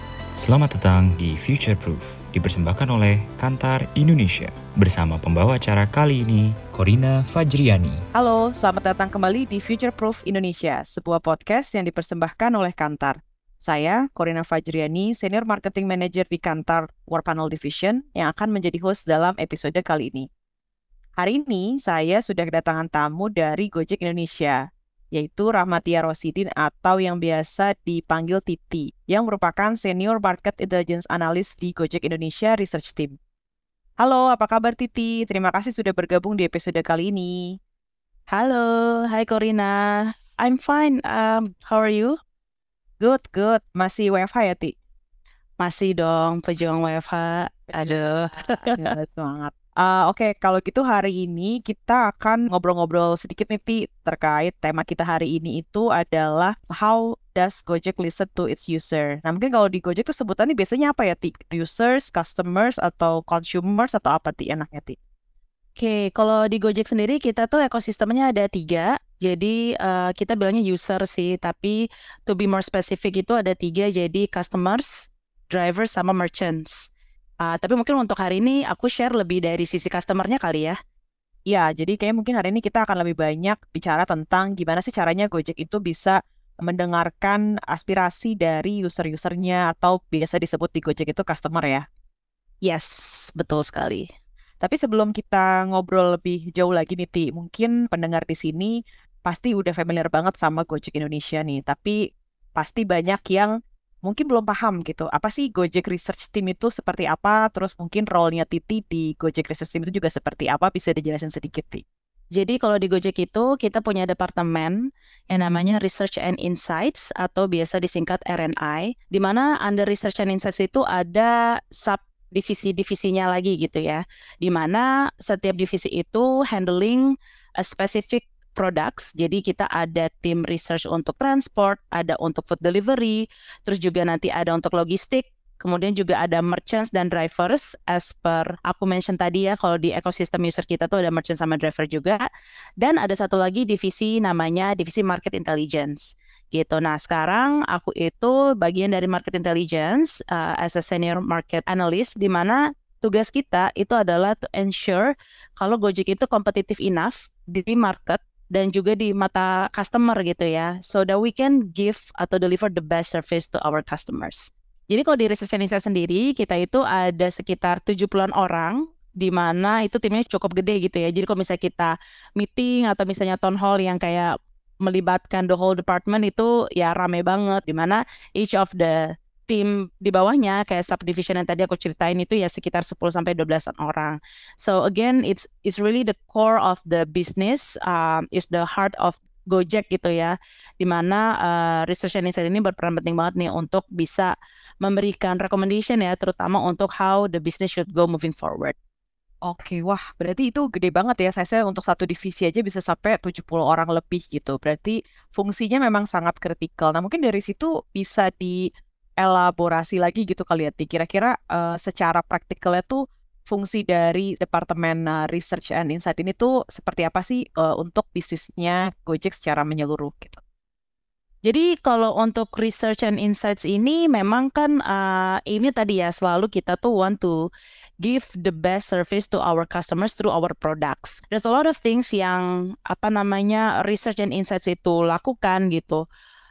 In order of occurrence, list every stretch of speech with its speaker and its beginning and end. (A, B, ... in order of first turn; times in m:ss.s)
0:00.4-0:08.0 A
0:08.1-0:20.3 B
0:21.2-0:24.6 B
0:25.1-0:33.2 B
0:34.0-0:37.5 B
0:38.3-0:42.2 C
0:43.0-0:44.7 B
0:45.6-0:48.9 C
0:48.6-1:05.0 B
1:05.8-1:11.8 C
1:12.3-1:16.9 C
1:17.4-1:20.8 C
1:21.5-1:31.8 B
1:32.6-1:34.0 C
1:34.6-1:38.7 B
1:39.2-1:42.0 B
1:42.6-1:43.5 B
1:44.0-1:51.8 B
1:52.4-1:54.8 C
1:55.3-2:22.2 C
2:22.8-2:54.3 C
2:54.8-3:14.3 C
3:14.8-3:18.7 C
3:19.4-3:28.6 B
3:29.2-3:40.4 B
3:41.4-3:47.4 C
3:48.0-3:56.0 C